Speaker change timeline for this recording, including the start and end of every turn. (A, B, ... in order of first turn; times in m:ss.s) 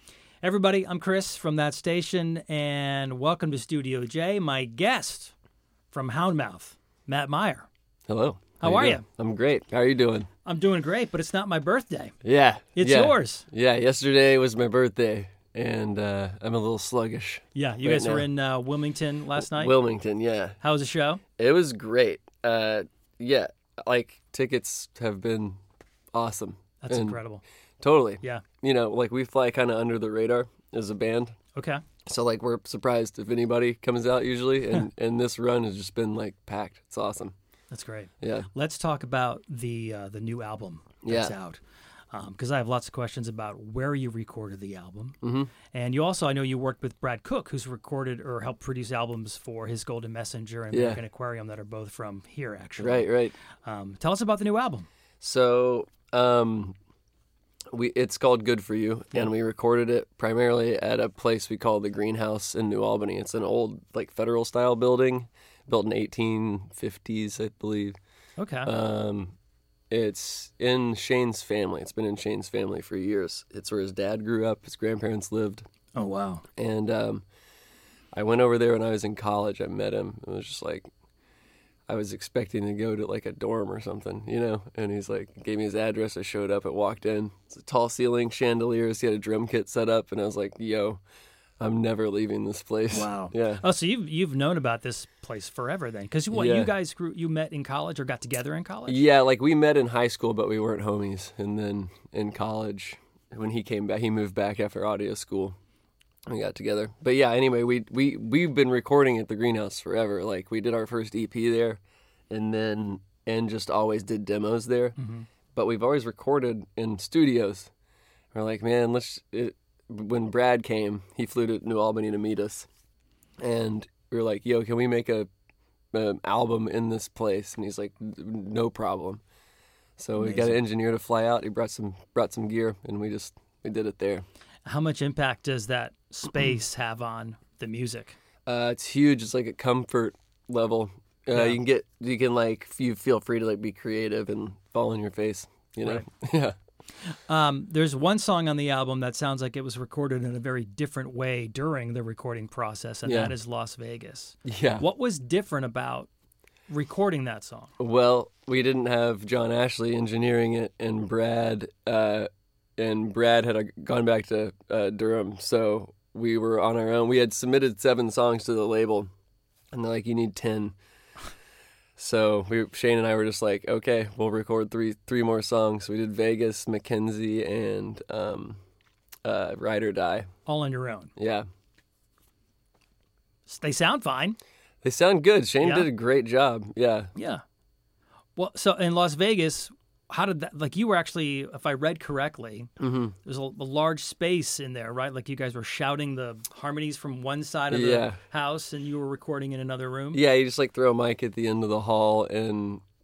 0:00.4-0:05.3 A
0:05.9-0:07.7 A
0:08.1-0:10.3 B
0:08.6-0:09.0 A
0:10.4-0:12.2 A
0:12.2-0:18.3 B
0:12.8-0:13.5 A
0:17.6-0:19.7 A
0:19.4-0:20.6 B
0:20.6-0:21.2 A
0:21.4-0:25.6 B
0:26.1-0:27.2 B
0:26.8-0:27.4 A
0:27.8-0:31.4 B
0:28.2-0:28.5 A
0:31.6-0:31.8 A
0:32.1-0:37.3 B
0:37.7-0:41.6 A
0:38.2-0:38.5 B
0:41.0-0:41.3 B
0:42.1-0:53.1 A
0:45.2-0:45.5 B
0:50.7-0:51.0 B
0:52.8-0:53.4 B
0:53.6-0:54.9 A
0:55.2-0:56.8 B
0:57.7-1:08.0 B
1:08.4-1:08.7 A
1:08.6-1:09.4 B
1:09.9-1:15.6 B
1:16.0-1:16.4 A
1:16.6-1:17.2 B
1:18.1-1:20.9 B
1:21.9-1:31.0 B
1:31.6-1:33.6 B
1:32.9-1:39.0 A
1:36.3-1:36.7 B
1:38.9-1:45.6 B
1:46.3-1:55.0 B
1:55.0-1:55.3 A
1:55.5-1:57.7 B
1:58.3-2:02.7 B
2:03.4-2:05.3 B
2:05.9-2:09.2 B
2:10.0-2:14.2 B
2:10.2-2:10.6 A
2:14.7-2:18.2 A
2:18.5-2:26.6 B
2:25.8-2:26.1 A
2:27.3-2:36.1 A
2:33.0-2:33.3 B
2:34.5-2:34.8 B
2:36.7-2:37.7 A
2:37.8-2:49.1 B
2:49.7-2:50.8 B
2:52.0-2:58.6 B
2:59.2-3:00.3 B
3:00.5-3:01.1 A
3:01.2-3:01.5 B
3:03.5-3:04.4 A
3:04.8-3:07.1 B
3:05.6-3:05.9 A
3:07.2-3:07.4 A
3:08.4-3:12.7 A
3:12.8-3:13.1 B
3:13.2-3:20.2 A
3:17.7-3:18.2 B
3:20.1-3:22.8 B